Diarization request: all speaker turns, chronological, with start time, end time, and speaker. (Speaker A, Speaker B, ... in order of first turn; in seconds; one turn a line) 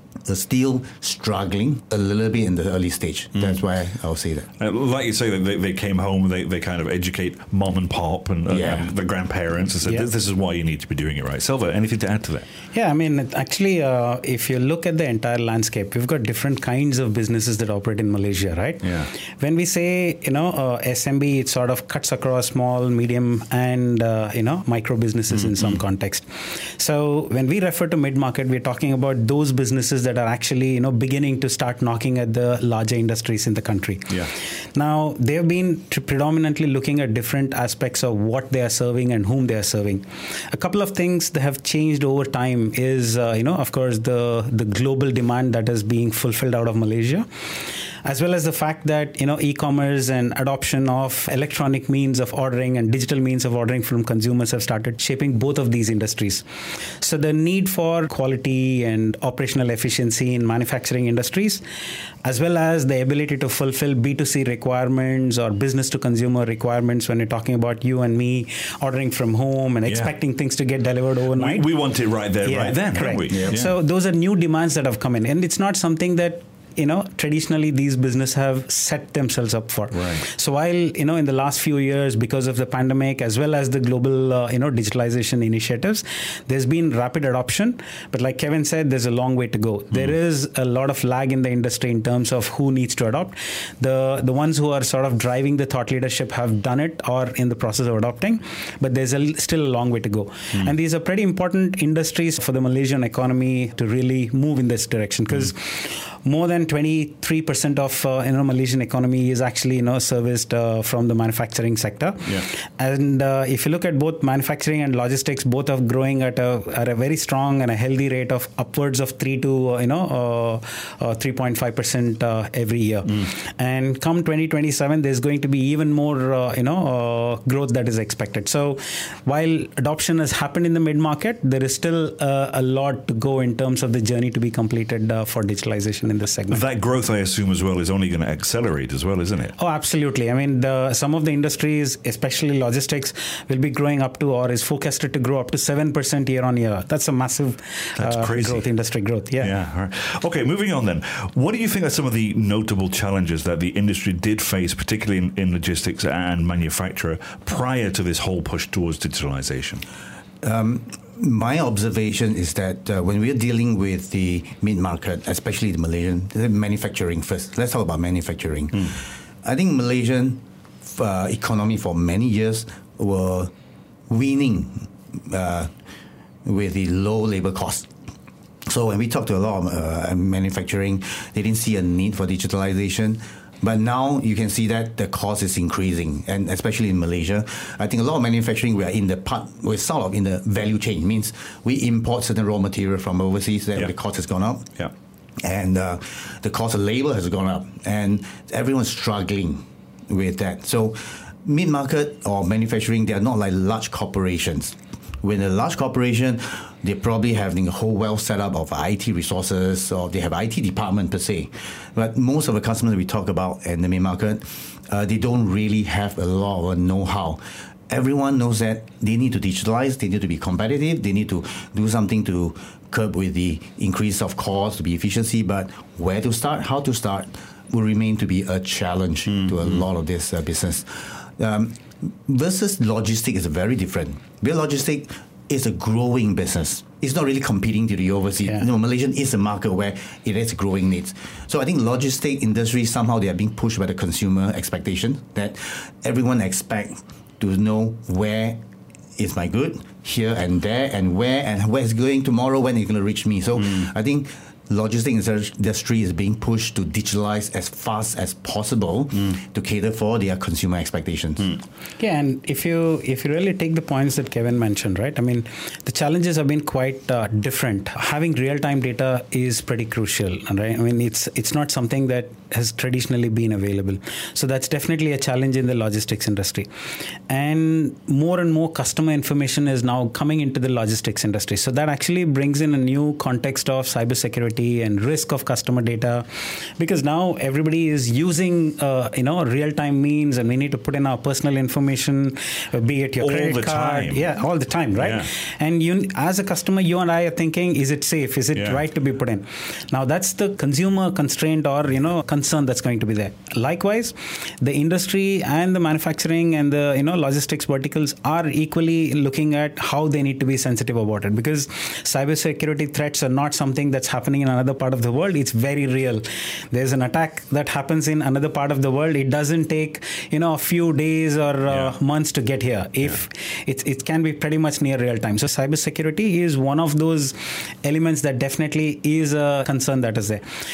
Speaker A: 0.3-4.5
Speaker B: 4.6-12.5
Speaker A: 8.5-8.9
Speaker C: 12.7-34.2
Speaker B: 18.8-19.1
Speaker B: 25.4-25.8
Speaker C: 34.8-47.3
Speaker C: 48.0-56.4
Speaker C: 57.0-61.6
Speaker C: 62.2-71.7
Speaker B: 69.9-70.1
Speaker B: 71.3-73.7
Speaker C: 72.4-136.6
Speaker B: 79.9-80.2
Speaker B: 136.5-139.6
Speaker C: 139.6-149.5
Speaker B: 148.0-148.7
Speaker B: 149.4-159.8
Speaker A: 160.4-173.5
Speaker A: 174.1-175.7
Speaker A: 176.4-177.9
Speaker A: 178.7-194.7
Speaker A: 195.4-248.6
Speaker A: 249.2-261.6
Speaker C: 262.0-276.7
Speaker C: 277.3-330.4
Speaker B: 293.2-294.3
Speaker B: 295.0-295.3
Speaker B: 298.6-298.8